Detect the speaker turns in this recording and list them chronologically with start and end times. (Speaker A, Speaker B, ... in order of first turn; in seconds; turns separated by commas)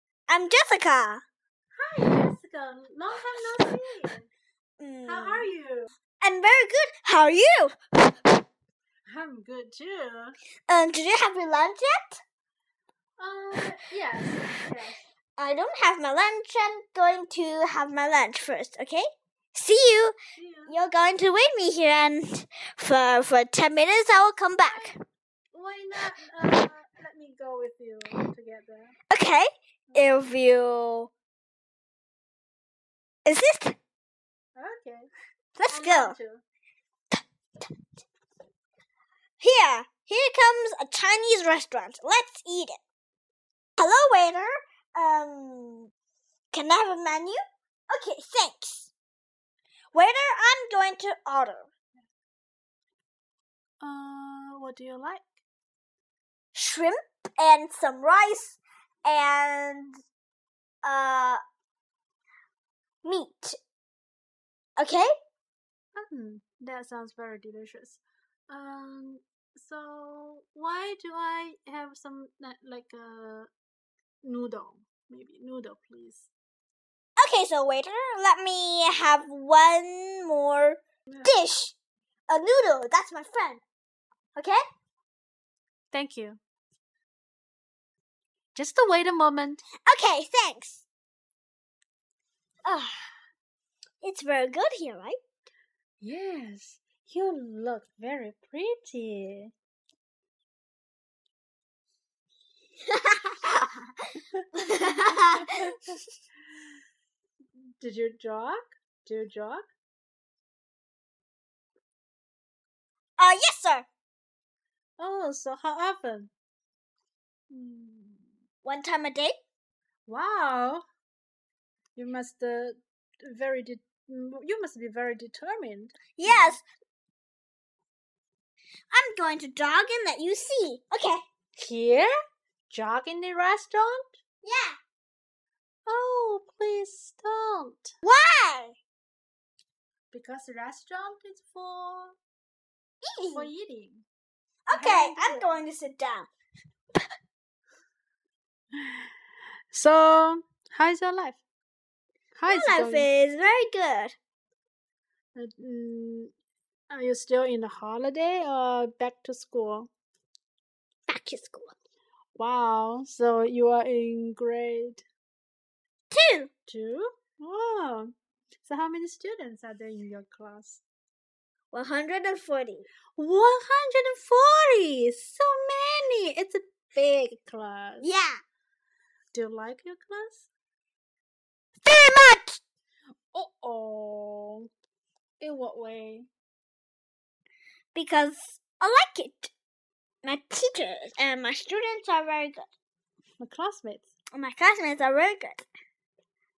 Speaker A: 0.3-1.2, Speaker B: 1.8-4.3, Speaker A: 4.8-5.5, Speaker B: 5.1-5.9, Speaker A: 6.2-8.1, Speaker B: 9.1-10.4, Speaker A: 10.7-12.2, Speaker B: 13.2-15.0, Speaker A: 15.4-20.1, Speaker B: 20.4-20.8, Speaker A: 20.7-24.9, Speaker B: 24.6-24.9, Speaker B: 25.5-28.9, Speaker A: 29.1-31.1, Speaker A: 33.3-33.8, Speaker B: 34.6-35.1, Speaker A: 35.6-36.2, Speaker B: 35.7-36.4, Speaker A: 39.4-42.8, Speaker A: 43.8-45.9, Speaker A: 46.5-47.4, Speaker A: 47.9-48.9, Speaker A: 49.9-51.7, Speaker B: 53.8-55.4, Speaker A: 56.5-60.0, Speaker A: 60.8-61.4, Speaker A: 63.0-63.6, Speaker A: 64.8-65.1, Speaker B: 66.0-73.5, Speaker B: 74.2-76.3, Speaker A: 77.2-81.8, Speaker B: 81.1-81.3, Speaker A: 82.3-83.6, Speaker B: 85.9-86.4, Speaker B: 88.5-89.6, Speaker A: 89.8-90.9, Speaker A: 92.7-93.0, Speaker A: 94.0-95.2, Speaker B: 96.0-99.5, Speaker A: 102.9-103.6, Speaker A: 104.6-105.8, Speaker B: 107.6-109.7, Speaker A: 113.2-113.9, Speaker B: 115.0-116.3, Speaker B: 117.5-118.3, Speaker A: 118.6-119.4, Speaker B: 120.1-120.8, Speaker B: 122.0-126.6, Speaker A: 126.2-126.6, Speaker A: 128.9-131.2, Speaker B: 131.6-132.1, Speaker B: 132.7-134.2, Speaker A: 134.4-134.8, Speaker B: 135.9-137.9, Speaker A: 138.0-138.8, Speaker B: 140.1-142.2, Speaker A: 143.0-143.5, Speaker B: 143.3-144.1, Speaker A: 144.7-146.3, Speaker B: 144.7-145.6, Speaker B: 148.8-149.1, Speaker B: 149.7-151.4, Speaker B: 152.3-153.1, Speaker A: 152.5-154.2, Speaker B: 155.3-156.3, Speaker B: 156.9-159.9, Speaker A: 161.1-161.7, Speaker B: 162.4-165.0, Speaker A: 166.1-166.5, Speaker B: 166.7-168.1, Speaker B: 168.6-170.8, Speaker A: 171.7-172.9, Speaker B: 173.2-178.1, Speaker A: 178.0-178.4, Speaker B: 179.3-180.5, Speaker A: 181.8-182.6, Speaker B: 183.3-184.7, Speaker B: 185.4-186.3, Speaker A: 187.9-189.5, Speaker A: 190.2-192.7, Speaker B: 193.4-194.1, Speaker A: 194.3-195.7